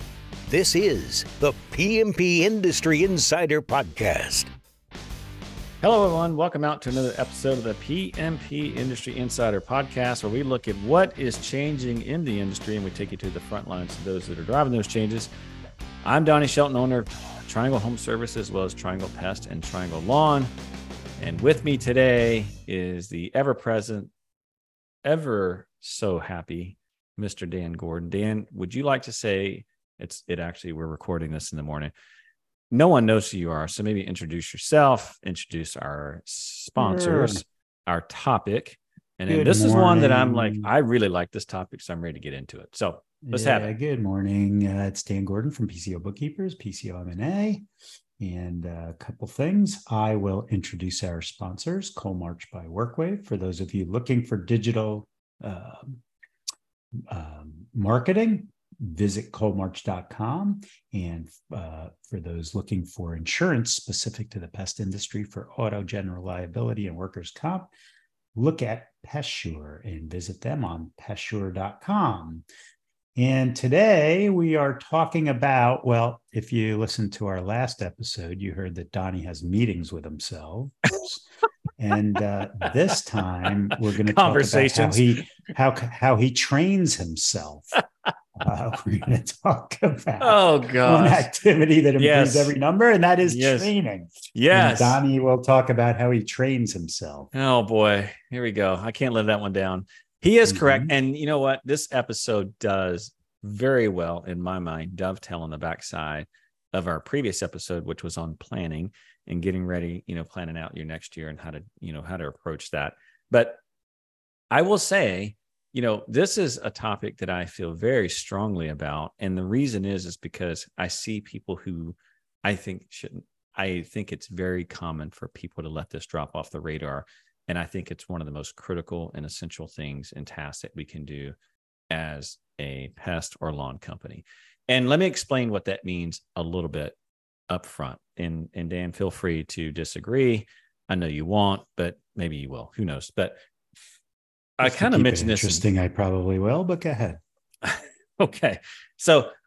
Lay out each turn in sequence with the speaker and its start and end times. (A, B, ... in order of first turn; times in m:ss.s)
0:00.5-0:04.5 A
0:05.8-0:15.3 B
0:16.0-0:20.5 B
0:21.2-0:24.1 B
0:25.0-0:31.9 B
0:32.7-0:43.7 B
0:36.8-0:37.4 C
0:39.3-0:40.7 C
0:43.2-0:47.6 C
0:48.2-0:56.0 C
0:57.0-1:07.7 C
1:08.3-1:12.4 C
1:13.1-1:21.2 C
1:21.8-1:27.7 C
1:23.8-1:25.2 B
1:28.4-1:37.3 C
1:30.2-1:31.3 B
1:32.0-1:32.5 B
1:33.2-1:33.7 B
1:34.3-1:35.0 B
1:37.3-1:53.6 B
1:40.5-1:40.9 C
1:54.5-2:11.3 B
2:11.9-2:17.0 B
2:17.5-2:23.4 B
2:24.6-2:25.6 B
2:24.6-2:27.2 C
2:27.6-2:29.3 B